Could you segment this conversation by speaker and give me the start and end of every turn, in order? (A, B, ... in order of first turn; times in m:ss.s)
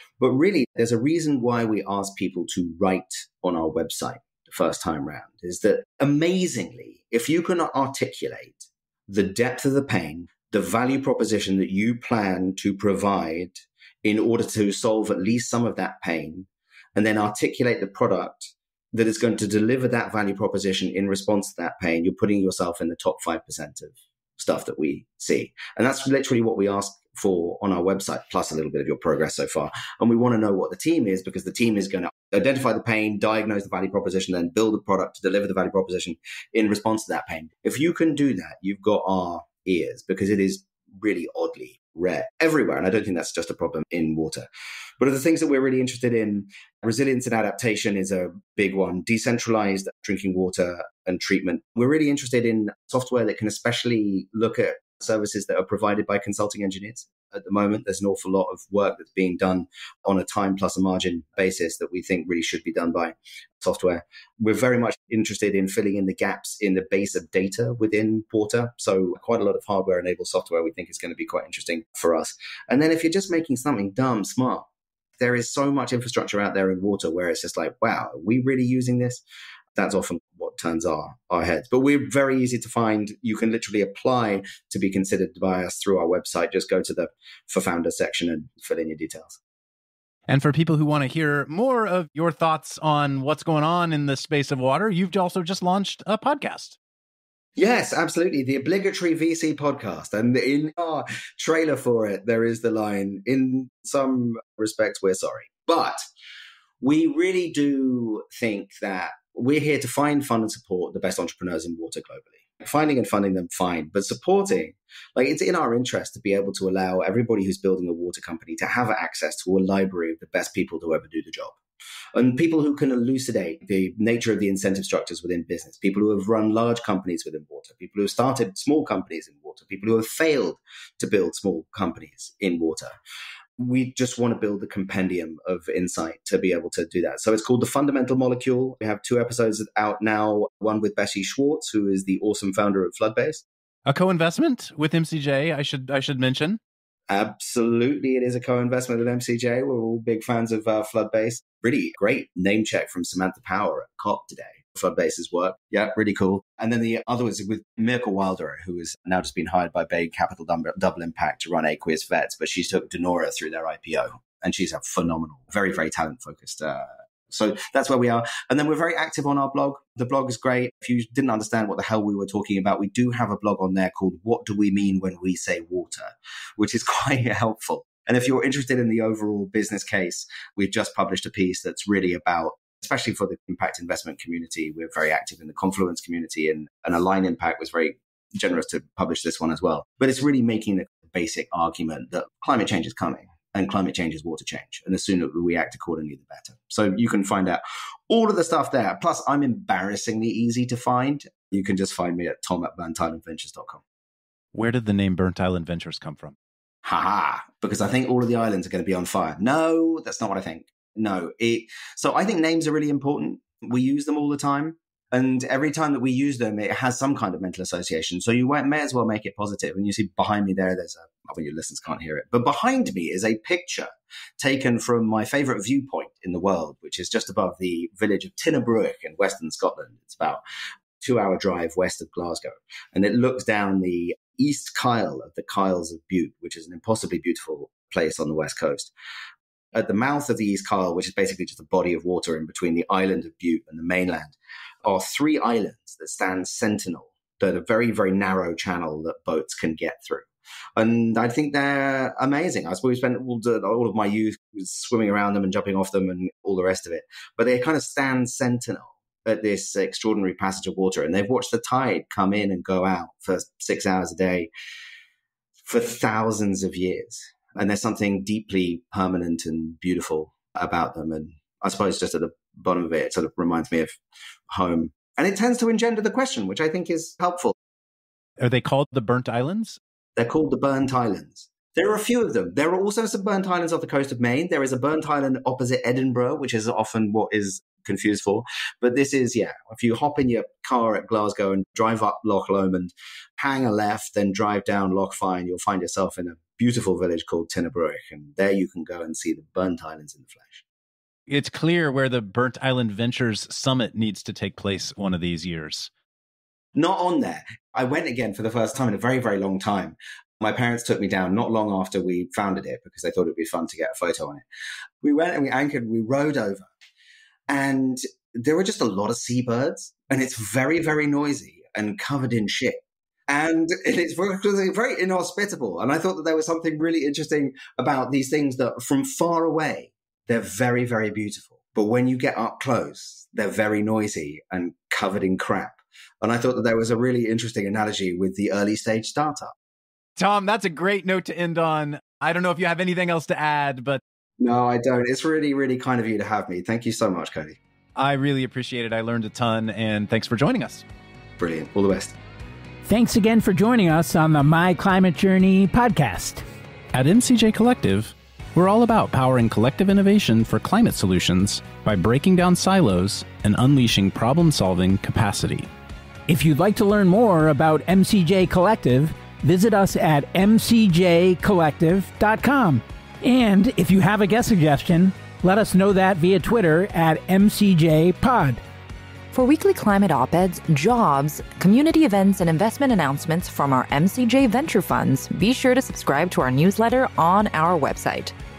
0:00.2-0:44.5 A
0:45.0-1:14.7 A
1:15.2-1:19.2 A
1:19.8-1:29.4 A
1:30.3-1:36.8 B
1:37.6-1:46.0 A
1:46.8-2:01.6 A
2:02.2-2:12.9 A
2:13.6-2:23.4 A
2:23.9-2:26.6 B
2:27.1-3:23.8 A
3:24.5-3:26.4 B
3:26.8-3:50.4 A
3:51.0-3:58.9 A
3:59.7-4:24.5 A
4:25.6-4:37.6 A
4:38.4-4:39.8 B
4:40.2-5:00.6 A
5:01.3-5:05.9 B
5:06.8-5:14.4 A
5:15.0-5:16.7 A
5:17.5-5:39.5 A
5:40.2-5:44.0 B
5:44.4-5:47.6 A
5:48.0-5:50.8 B
5:51.4-5:52.2 A
5:52.8-5:56.4 C
5:56.9-6:05.7 B
6:06.3-6:18.6 C
6:19.3-6:28.3 D